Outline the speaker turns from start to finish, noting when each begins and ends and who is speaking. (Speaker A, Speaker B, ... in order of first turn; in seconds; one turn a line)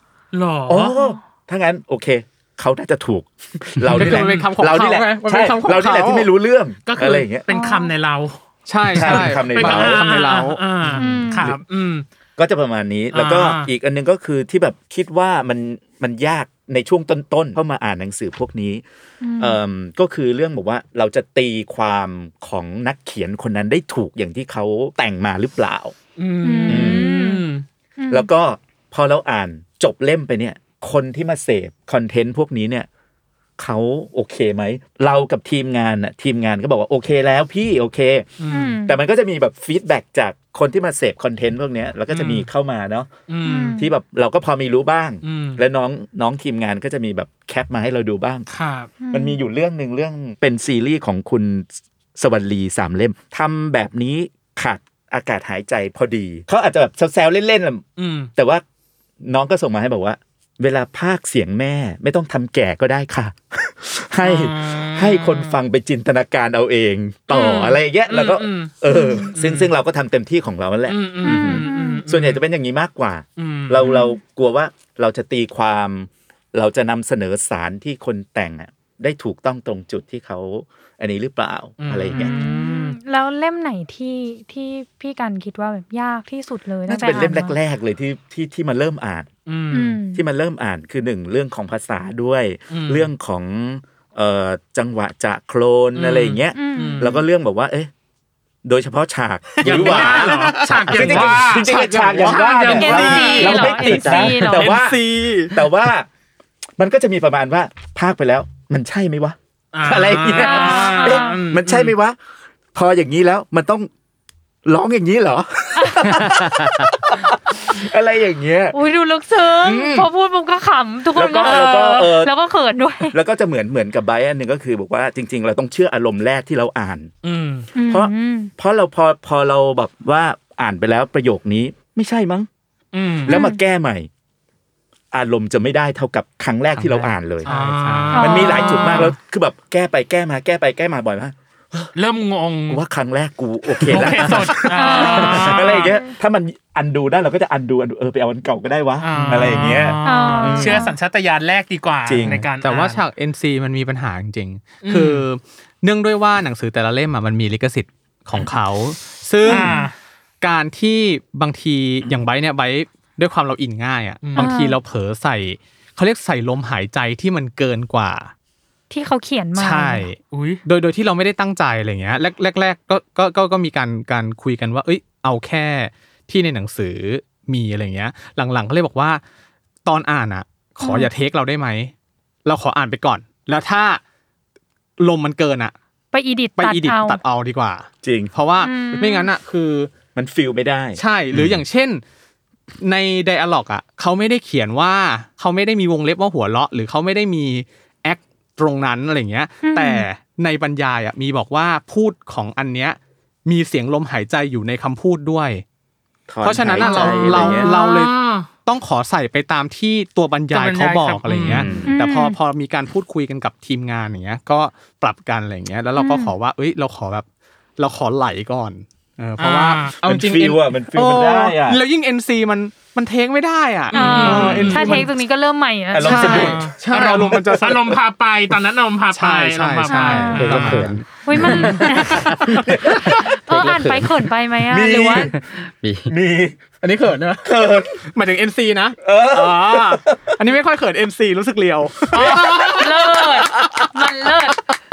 Speaker A: 0.3-1.0
Speaker B: 0.7-7.5
Speaker C: 3.9-6.3
Speaker A: 3.9-4.5
Speaker A: 6.8-12.1
Speaker D: 7.5-7.9
Speaker C: 8.7-10.6
Speaker B: 8.9-10.1
Speaker B: 10.8-11.6
Speaker D: 11.0-11.5
Speaker B: 12.4-18.8
Speaker A: 13.1-13.7
Speaker D: 19.2-19.6
Speaker B: 19.4-25.9
Speaker A: 26.2-27.7
Speaker D: 26.4-27.5
Speaker B: 26.7-27.1
Speaker D: 28.0-28.3
Speaker B: 28.1-32.9
Speaker B: 33.6-38.3
Speaker A: 38.4-38.8
Speaker D: 38.5-39.0
Speaker B: 38.9-43.1
Speaker A: 42.1-42.5
Speaker A: 43.3-43.8
Speaker D: 43.4-43.9
Speaker B: 43.8-48.5
Speaker A: 45.2-45.6
Speaker A: 48.5-48.9
Speaker D: 49.0-49.4
Speaker B: 49.1-57.8
Speaker A: 58.0-58.3
Speaker B: 58.4-58.6
Speaker B: 59.2-82.3
Speaker A: 64.2-65.6
Speaker A: 67.3-69.7
Speaker D: 68.9-69.3
Speaker A: 70.9-72.4
Speaker D: 71.2-72.0
Speaker A: 73.4-74.1
Speaker D: 73.8-74.1
Speaker A: 81.8-83.0
Speaker D: 82.2-87.6
Speaker B: 86.9-89.3
Speaker A: 87.0-87.3
Speaker A: 89.5-90.0
Speaker D: 89.7-90.2
Speaker B: 90.1-97.9
Speaker A: 92.7-93.1
Speaker A: 96.0-97.2
Speaker D: 96.5-97.1
Speaker B: 98.6-106.1
Speaker C: 99.6-105.6
Speaker A: 99.6-104.0
Speaker D: 102.6-104.8
Speaker B: 106.8-112.2
Speaker A: 109.7-111.9
Speaker D: 110.3-111.4
Speaker B: 112.7-113.9
Speaker B: 114.7-118.8
Speaker D: 115.8-116.2
Speaker D: 118.7-123.2
Speaker B: 119.4-120.1
Speaker B: 121.1-122.3
Speaker A: 121.4-122.1
Speaker B: 123.1-127.1
Speaker A: 127.2-127.7
Speaker D: 127.8-128.5
Speaker B: 127.9-132.5
Speaker A: 132.9-133.4
Speaker B: 133.3-134.1
Speaker D: 133.3-133.6
Speaker B: 135.1-137.5
Speaker C: 136.8-138.4
Speaker A: 137.4-139.2
Speaker D: 138.1-139.1
Speaker B: 138.2-141.9
Speaker A: 141.9-142.8
Speaker B: 142.7-150.8
Speaker A: 143.8-145.9
Speaker C: 143.9-144.5
Speaker D: 144.7-146.1
Speaker A: 149.0-153.0
Speaker C: 149.2-149.8
Speaker D: 150.0-150.9
Speaker B: 152.1-152.4
Speaker C: 152.2-159.8
Speaker A: 154.8-155.3
Speaker A: 159.4-159.9
Speaker D: 159.5-159.8
Speaker C: 160.4-168.3
Speaker A: 164.2-164.5
Speaker D: 164.4-164.8
Speaker D: 168.9-170.1
Speaker C: 169.6-179.2
Speaker A: 170.3-170.6
Speaker C: 179.8-181.9
Speaker D: 180.8-181.1
Speaker C: 182.4-184.0
Speaker C: 185.0-185.8
Speaker D: 186.1-187.2
Speaker C: 186.6-189.9
Speaker B: 188.0-188.3
Speaker D: 188.6-189.3
Speaker B: 190.2-191.6
Speaker C: 191.0-192.0
Speaker C: 192.8-205.6
Speaker D: 199.6-200.1
Speaker B: 206.3-207.7
Speaker C: 206.4-217.2
Speaker A: 206.9-208.5
Speaker D: 207.0-207.7
Speaker A: 210.5-211.8
Speaker B: 211.4-211.9
Speaker D: 211.9-212.4
Speaker D: 216.0-216.3
Speaker C: 217.8-225.1
Speaker A: 219.4-220.0
Speaker B: 220.0-221.8
Speaker A: 223.9-225.1
Speaker D: 223.9-226.6
Speaker B: 225.9-226.7
Speaker C: 226.0-228.0
Speaker A: 226.1-230.9
Speaker C: 229.1-231.9
Speaker D: 229.9-230.6
Speaker E: 230.4-231.0
Speaker D: 231.2-232.2
Speaker A: 231.7-232.2
Speaker B: 232.5-233.0
Speaker D: 232.9-235.3
Speaker E: 233.5-234.1
Speaker B: 234.7-235.4
Speaker E: 235.3-236.1
Speaker B: 236.1-236.7
Speaker C: 236.8-237.5
Speaker B: 237.4-238.1
Speaker C: 238.1-242.7
Speaker B: 239.0-240.3
Speaker A: 242.1-242.9
Speaker D: 242.7-244.6